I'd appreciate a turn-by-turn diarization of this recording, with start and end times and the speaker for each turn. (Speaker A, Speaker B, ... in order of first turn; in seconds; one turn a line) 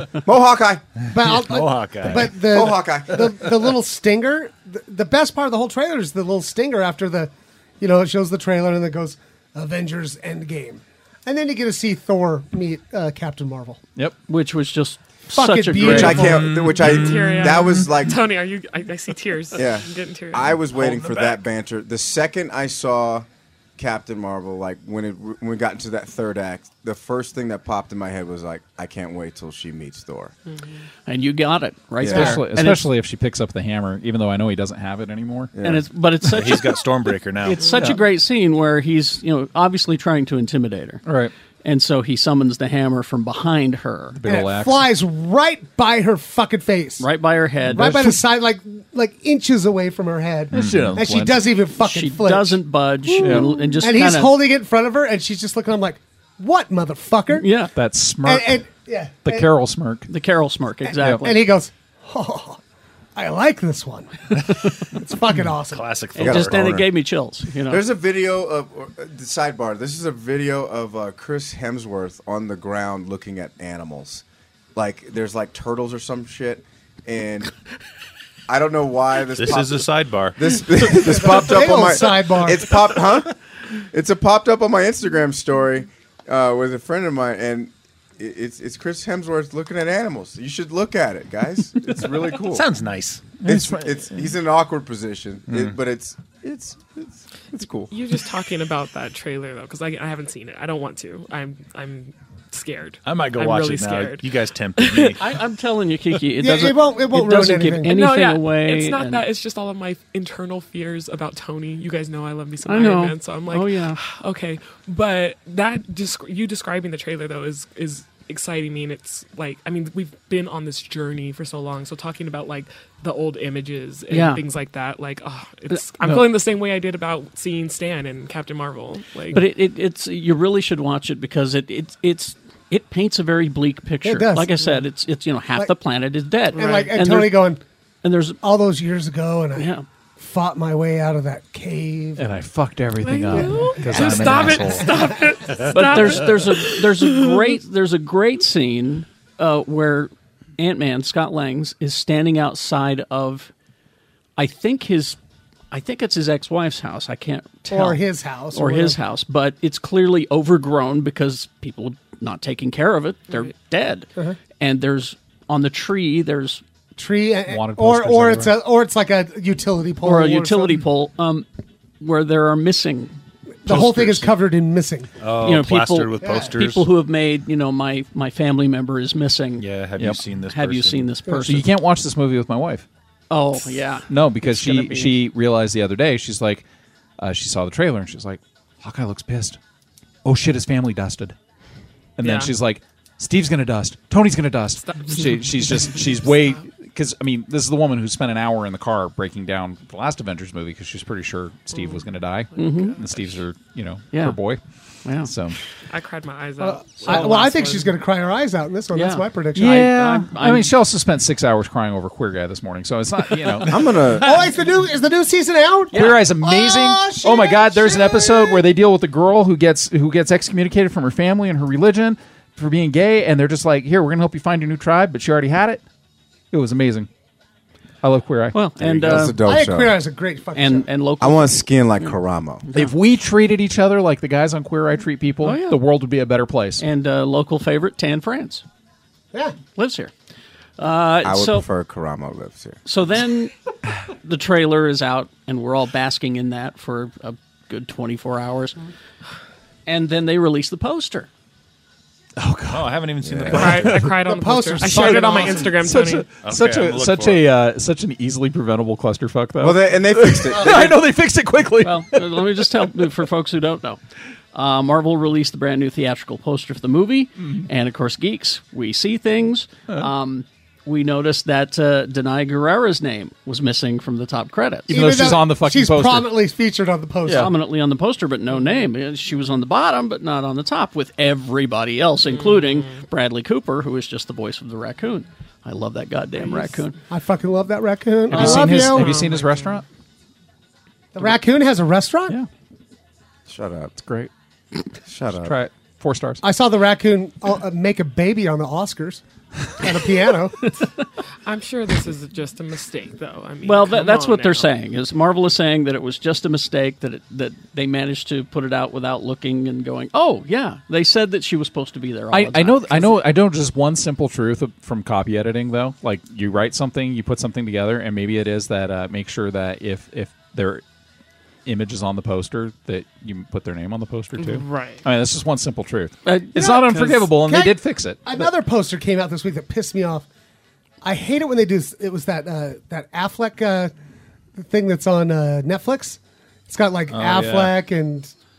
Speaker A: 0.2-0.8
Speaker B: 1.1-13.8
Speaker C: 1.1-2.7
Speaker A: 2.5-3.3
Speaker D: 14.3-16.4
Speaker B: 15.3-16.5
Speaker A: 15.8-18.2
Speaker C: 16.2-17.9
Speaker E: 16.6-20.4
Speaker A: 19.6-23.3
Speaker C: 20.7-21.5
Speaker A: 23.8-30.4
Speaker D: 31.1-32.9
Speaker A: 32.0-32.4
Speaker F: 32.0-35.6
Speaker A: 35.6-35.9
Speaker D: 35.6-36.9
Speaker C: 36.3-37.7
Speaker D: 37.4-41.0
Speaker F: 37.7-38.0
Speaker F: 41.0-41.3
Speaker D: 41.6-44.2
Speaker F: 44.1-44.9
Speaker B: 44.2-47.1
Speaker D: 47.0-48.2
Speaker B: 47.7-57.5
Speaker F: 50.5-51.4
Speaker C: 50.5-51.1
Speaker D: 51.8-54.4
Speaker F: 53.2-53.5
Speaker D: 57.3-57.7
Speaker F: 57.8-58.6
Speaker B: 58.2-59.5
Speaker F: 59.2-60.1
Speaker D: 60.1-61.5
Speaker B: 60.9-62.6
Speaker B: 63.1-65.9
Speaker C: 65.7-66.6
Speaker D: 66.2-67.8
Speaker A: 66.2-66.9
Speaker A: 67.7-74.2
Speaker A: 74.8-77.5
Speaker A: 78.5-83.3
Speaker C: 79.3-80.4
Speaker B: 80.8-82.8
Speaker A: 83.9-92.7
Speaker C: 92.4-93.4
Speaker A: 93.4-97.9
Speaker F: 93.4-94.2
Speaker E: 97.9-105.2
Speaker C: 103.0-105.2
Speaker D: 105.2-109.3
Speaker B: 106.4-108.0
Speaker E: 107.9-129.4
Speaker D: 112.7-114.0
Speaker D: 124.1-124.5
Speaker D: 129.3-137.4
Speaker B: 134.0-134.6
Speaker E: 136.6-136.9
Speaker B: 136.6-137.6
Speaker D: 138.0-138.4
Speaker B: 138.4-142.2
Speaker D: 139.6-139.8
Speaker F: 142.2-145.0
Speaker E: 143.0-147.5
Speaker B: 143.3-144.1
Speaker D: 144.0-144.5
Speaker D: 145.6-153.5
Speaker D: 154.4-155.2
Speaker D: 155.7-166.6
Speaker B: 157.7-159.0
Speaker B: 167.0-170.8
Speaker F: 167.5-168.6
Speaker D: 170.0-171.5
Speaker D: 172.0-173.1
Speaker B: 173.7-175.1
Speaker C: 173.7-174.2
Speaker C: 175.2-176.9
Speaker D: 175.4-179.7
Speaker B: 176.2-176.6
Speaker C: 179.6-181.1
Speaker D: 180.4-181.7
Speaker F: 181.4-182.9
Speaker D: 183.3-185.2
Speaker F: 184.1-186.7
Speaker F: 187.2-189.6
Speaker F: 190.2-191.3
Speaker F: 192.2-204.6
Speaker E: 192.2-192.5
Speaker E: 194.8-196.6
Speaker E: 201.7-203.3
Speaker D: 202.6-203.1
Speaker D: 204.1-204.4
Speaker D: 205.1-205.3
Speaker F: 205.2-205.6
Speaker E: 205.9-208.0
Speaker B: 206.6-209.8
Speaker D: 208.9-210.7
Speaker F: 209.6-214.0
Speaker A: 213.7-214.4
Speaker B: 214.2-218.7
Speaker D: 215.9-216.3
Speaker F: 215.9-225.8
Speaker F: 226.5-227.1
Speaker F: 228.0-229.3
Speaker D: 228.5-229.5
Speaker A: 228.8-230.0
Speaker B: 229.3-230.9
Speaker D: 230.6-232.1
Speaker A: 231.2-232.7
Speaker F: 232.7-236.8
Speaker D: 235.4-235.8
Speaker D: 236.8-238.6
Speaker D: 239.7-240.1
Speaker D: 240.8-241.7
Speaker A: 241.2-242.8
Speaker D: 242.8-243.5
Speaker D: 244.2-248.9
Speaker D: 249.9-251.3
Speaker F: 252.4-253.0
Speaker C: 252.7-254.3
Speaker A: 253.2-253.8
Speaker E: 253.5-256.3
Speaker B: 254.1-255.8
Speaker F: 255.7-262.9
Speaker C: 256.4-257.5
Speaker A: 259.6-260.9
Speaker D: 261.8-264.0
Speaker D: 264.5-274.9
Speaker F: 274.9-276.3
Speaker B: 274.9-277.5
Speaker F: 277.3-277.5
Speaker D: 277.3-287.0
Speaker E: 282.2-283.0
Speaker B: 287.1-289.2
Speaker F: 288.3-289.9
Speaker D: 288.3-288.7
Speaker E: 288.8-289.7
Speaker B: 291.1-292.4
Speaker A: 293.5-293.9
Speaker F: 294.0-294.3
Speaker A: 295.1-295.6
Speaker F: 295.3-296.4
Speaker B: 296.4-299.2
Speaker B: 299.8-300.6
Speaker E: 301.4-304.7
Speaker D: 303.6-313.2
Speaker F: 312.3-320.8
Speaker F: 321.7-328.3
Speaker E: 324.4-325.0
Speaker D: 326.2-327.3
Speaker B: 326.6-330.3
Speaker B: 331.0-333.9
Speaker B: 334.6-338.3
Speaker C: 337.1-337.8